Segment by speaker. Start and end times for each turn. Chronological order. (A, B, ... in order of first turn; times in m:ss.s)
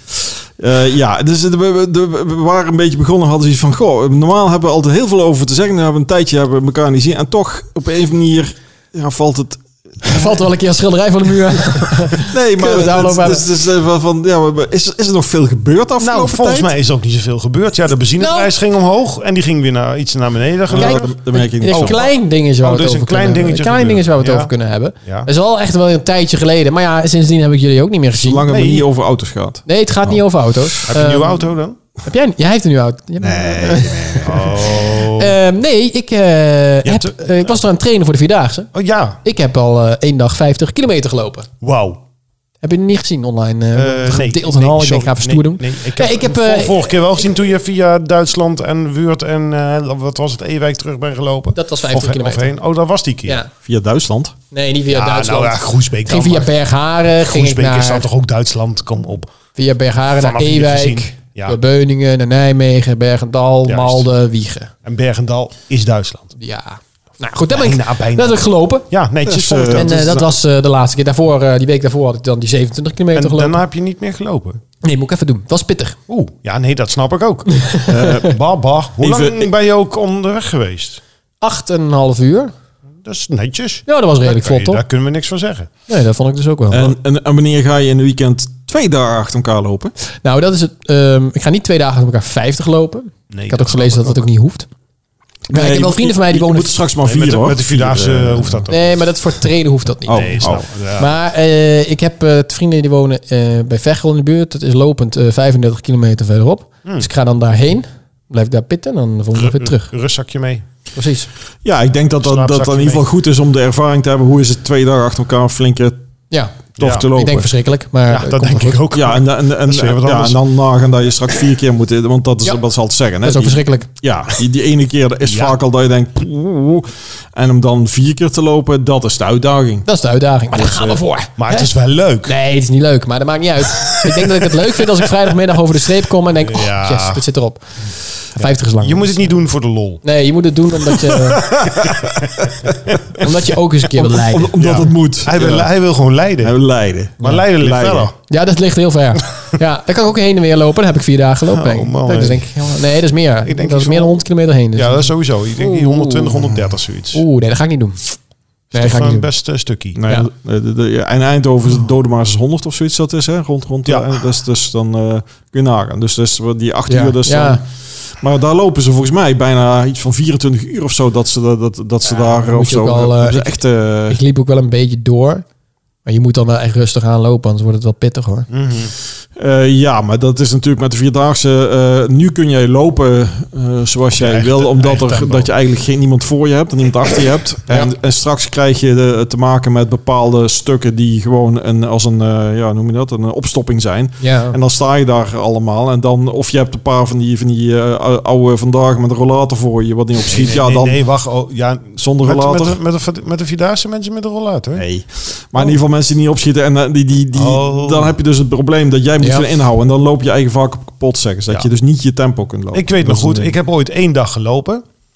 0:00.2-0:10.4 A
0:10.0-0:13.4 B
0:12.2-0:16.7 A
0:16.0-0:24.5 C
0:18.2-0:18.5 B
0:20.7-0:22.0 A
0:20.8-0:28.5 B
0:28.2-0:30.2 A
0:28.5-0:28.9 C
0:29.6-0:31.5 B
0:30.9-0:31.8 C
0:32.0-0:38.7 B
0:33.2-0:34.8 A
0:34.2-0:35.4 C
0:36.8-0:37.6 C
0:38.7-0:39.2 C
0:39.2-0:41.5 B
0:41.6-0:42.0 C
0:42.6-0:47.0 B
0:43.7-0:53.4 C
0:51.6-0:52.5 B
0:53.6-0:54.3 A
0:54.5-0:58.1 B
0:54.9-0:56.5 C
0:57.2-0:59.3 C
0:59.5-1:04.7 B
1:00.2-1:01.6 C
1:03.7-1:04.1 C
1:04.8-1:06.3 C
1:06.4-1:08.9 B
1:07.5-1:10.4 C
1:09.2-1:09.8 A
1:09.7-1:13.6 B
1:13.1-1:14.6 C
1:14.8-1:16.0 B
1:16.1-1:17.7 C
1:17.5-1:18.2 B
1:17.9-1:18.4 A
1:18.2-1:21.0 C
1:19.0-1:19.5 A
1:21.4-1:22.5 B
1:23.0-1:25.7 C
1:23.9-1:24.8 B
1:25.9-1:26.9 B
1:26.7-1:29.9 A
1:30.2-1:34.7 B
1:33.3-1:34.3 C
1:35.5-1:38.7 A
1:35.5-1:36.8 B
1:37.0-1:38.8 C
1:38.7-1:49.9 B
1:40.1-1:40.6 A
1:40.1-1:41.1 C
1:49.3-1:50.6 C
1:50.9-1:51.3 B
1:51.6-1:56.0 A
1:52.2-1:53.0 C
1:56.3-1:56.6 B
1:56.8-1:57.5 A
1:56.8-1:57.1 C
1:57.1-1:58.8 B
1:58.1-2:00.4 C
1:58.9-2:09.9 A
2:03.2-2:03.9 B
2:05.2-2:05.6 C
2:09.8-2:11.7 B
2:10.5-2:11.0 A
2:11.4-2:12.3 C
2:12.2-2:17.8 B
2:14.0-2:14.3 C
2:16.3-2:17.2 C
2:18.3-2:19.3 B
2:18.4-2:20.0 C
2:20.0-2:21.5 B
2:21.2-2:22.8 A
2:23.1-2:24.7 B
2:23.9-2:25.7 A
2:24.6-2:26.6 C
2:26.4-2:28.1 A
2:27.2-2:28.1 C
2:28.3-2:36.5 B
2:31.5-2:32.8 C
2:33.4-2:34.2 C
2:34.7-2:37.2 C
2:37.1-2:38.2 B
2:38.7-2:40.0 C
2:38.7-2:39.3 B
2:40.0-2:54.2 A
2:43.8-2:44.1 C
2:46.9-2:47.6 B
2:52.3-2:55.4 B
2:56.0-2:58.5 B
2:58.5-2:58.9 C
2:59.4-3:21.0 A
3:04.2-3:05.5 C
3:14.2-3:14.6 B
3:20.3-3:24.8 C
3:22.0-3:22.8 A
3:24.8-3:33.5 A
3:27.3-3:28.2 C
3:29.2-3:29.4 B
3:32.7-3:34.8 C